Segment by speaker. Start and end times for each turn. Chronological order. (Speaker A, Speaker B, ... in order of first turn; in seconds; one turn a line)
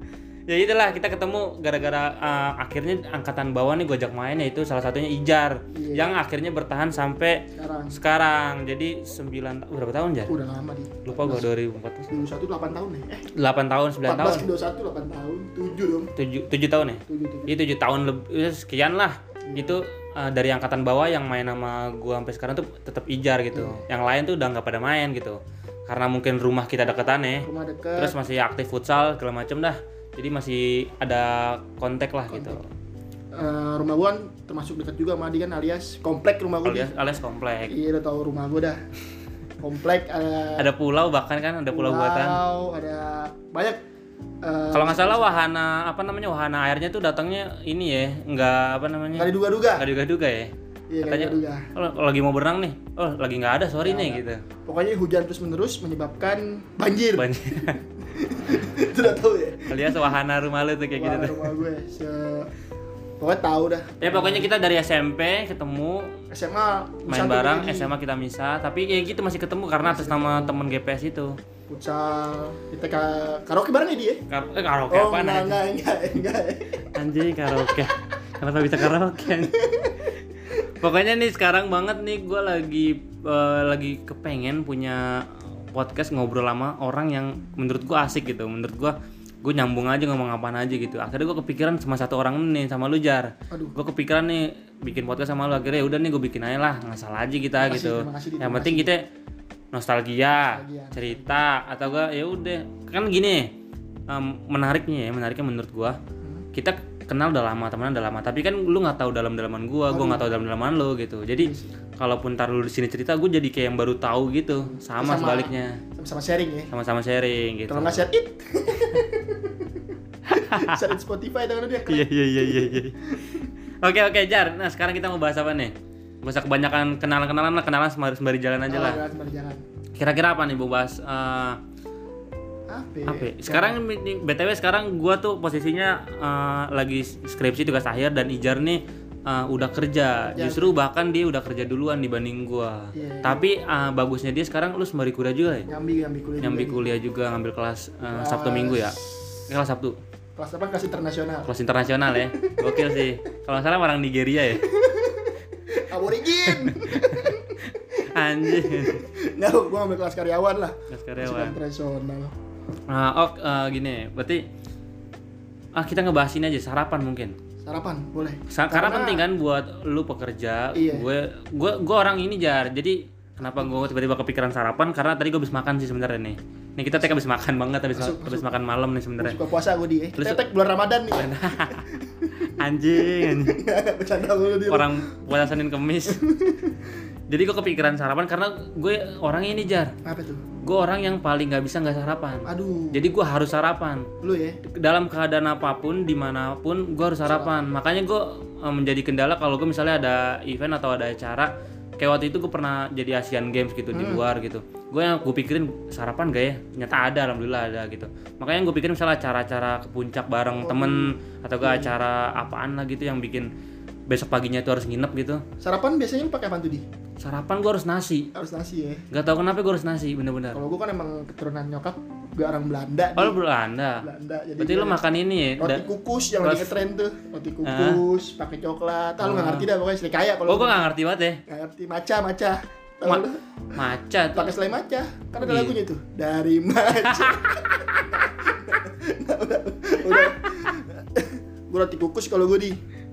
Speaker A: 0.5-10.3
Speaker B: 5.7-6.1
Speaker B: 7.5-8.0
Speaker B: 10.3-11.5
Speaker A: 11.1-12.1
Speaker B: 12.1-13.2
Speaker A: 13.3-14.4
Speaker B: 14.0-16.1
Speaker A: 16.1-32.6
Speaker B: 17.1-17.5
Speaker B: 19.4-19.8
Speaker B: 23.5-23.8
Speaker B: 27.4-28.1
Speaker B: 32.3-32.6
Speaker B: 33.3-36.9
Speaker A: 36.6-37.7
Speaker B: 37.7-38.8
Speaker B: 39.6-40.7
Speaker A: 40.6-42.4
Speaker B: 41.7-43.8
Speaker B: 44.4-45.4
Speaker A: 44.7-50.5
Speaker B: 49.1-49.9
Speaker B: 50.9-51.7
Speaker A: 51.0-54.4
Speaker B: 53.8-60.1
Speaker A: 57.1-57.8
Speaker A: 59.6-61.5
Speaker B: 60.9-62.5
Speaker B: 63.2-64.5
Speaker A: 64.0-66.1
Speaker B: 66.3-67.9
Speaker A: 67.1-71.4
Speaker B: 69.8-70.6
Speaker B: 71.7-74.2
Speaker A: 74.3-75.6
Speaker B: 74.9-76.9
Speaker A: 76.9-79.7
Speaker B: 77.6-78.0
Speaker B: 79.3-80.1
Speaker A: 80.8-99.0
Speaker B: 93.5-93.8
Speaker B: 97.6-98.9
Speaker A: 99.7-103.5
Speaker B: 100.3-101.4
Speaker A: 104.1-106.0
Speaker A: 106.5-115.8
Speaker B: 109.9-110.3
Speaker B: 111.4-111.7
Speaker B: 114.7-116.7
Speaker A: 116.7-118.0
Speaker B: 117.7-123.5
Speaker A: 120.3-120.8
Speaker A: 121.9-129.0
Speaker B: 128.7-129.6
Speaker A: 129.9-131.6
Speaker B: 132.7-133.8
Speaker A: 133.1-145.7
Speaker B: 140.3-140.8
Speaker B: 142.9-143.4
Speaker B: 145.7-146.8
Speaker A: 146.4-150.0
Speaker B: 148.0-149.2
Speaker B: 150.3-151.5
Speaker A: 151.4-154.7
Speaker B: 152.1-153.1
Speaker B: 154.6-162.3
Speaker A: 156.4-159.1
Speaker A: 160.9-161.6
Speaker A: 162.9-164.4
Speaker A: 165.8-167.3
Speaker B: 167.6-169.2
Speaker A: 168.5-179.4
Speaker B: 170.7-171.1
Speaker B: 173.4-173.9
Speaker B: 177.9-178.5
Speaker B: 179.2-185.5
Speaker A: 181.1-181.9
Speaker A: 182.4-183.6
Speaker A: 184.7-186.2
Speaker B: 186.1-187.0
Speaker A: 187.3-189.9
Speaker B: 190.0-190.4
Speaker A: 190.6-194.1
Speaker B: 192.4-193.0
Speaker B: 194.2-194.6
Speaker A: 194.7-213.5
Speaker B: 197.2-197.7
Speaker B: 203.9-204.2
Speaker B: 210.6-212.0
Speaker A: 214.1-215.4
Speaker B: 215.6-216.8
Speaker A: 217.2-218.3
Speaker B: 218.3-219.1
Speaker A: 219.1-220.6
Speaker B: 220.5-223.4
Speaker A: 223.2-224.1
Speaker B: 224.0-225.0
Speaker A: 224.6-225.9
Speaker B: 225.6-230.9
Speaker A: 226.4-226.7
Speaker A: 227.6-228.0
Speaker A: 229.2-229.7
Speaker A: 230.5-231.4
Speaker B: 231.5-233.8
Speaker A: 233.0-234.5
Speaker B: 234.3-242.8
Speaker A: 235.4-235.8
Speaker A: 237.0-237.5
Speaker A: 240.1-240.7